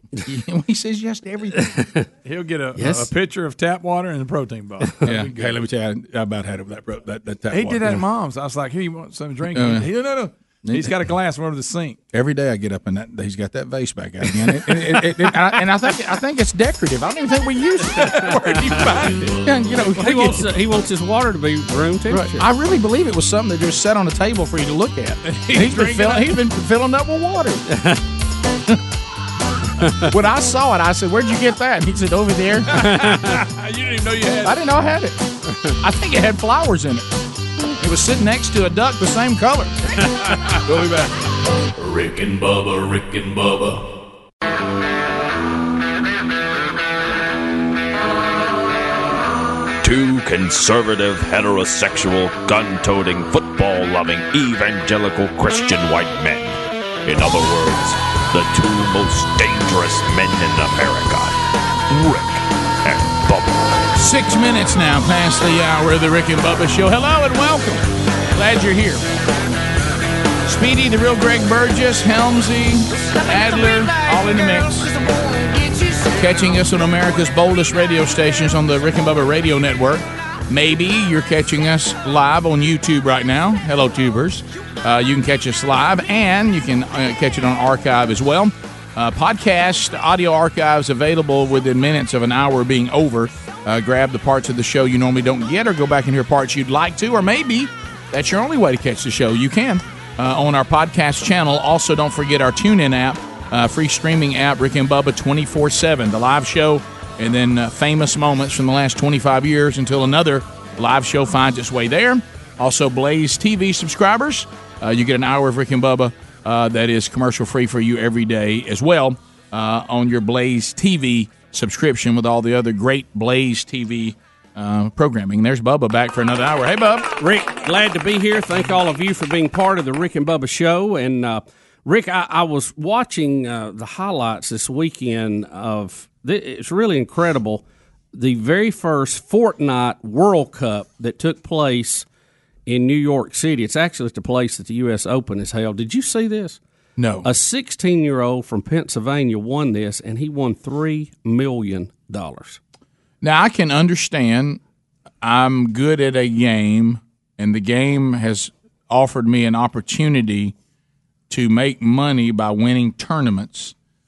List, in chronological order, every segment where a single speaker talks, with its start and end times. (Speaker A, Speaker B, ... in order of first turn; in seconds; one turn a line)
Speaker A: 0.2-1.8
Speaker B: 1.6-2.0
Speaker C: 2.2-5.5
Speaker B: 2.8-3.1
Speaker A: 5.0-8.0
Speaker C: 7.5-12.0
Speaker A: 9.5-10.0
Speaker A: 10.6-10.9
Speaker A: 12.1-20.5
Speaker C: 18.0-19.3
Speaker B: 19.9-22.5
Speaker A: 22.1-27.6
Speaker C: 25.2-26.4
Speaker B: 27.7-28.0
Speaker B: 29.8-30.1
Speaker A: 30.1-32.9
Speaker C: 32.7-34.6
Speaker B: 32.8-33.4
Speaker A: 34.4-35.2
Speaker A: 35.8-37.0
Speaker A: 37.8-40.0
Speaker C: 40.3-40.6
Speaker A: 40.6-41.1
Speaker D: 41.8-43.9
Speaker E: 49.8-61.4
Speaker E: 61.9-63.9
Speaker A: 64.0-69.0
Speaker A: 70.5-74.9
Speaker A: 76.0-127.1
Speaker B: 127.2-142.1
Speaker B: 142.7-146.6
Speaker A: 147.0-147.3
Speaker B: 147.2-152.6
Speaker A: 153.2-154.6
Speaker A: 155.2-160.5
Speaker A: 161.3-163.7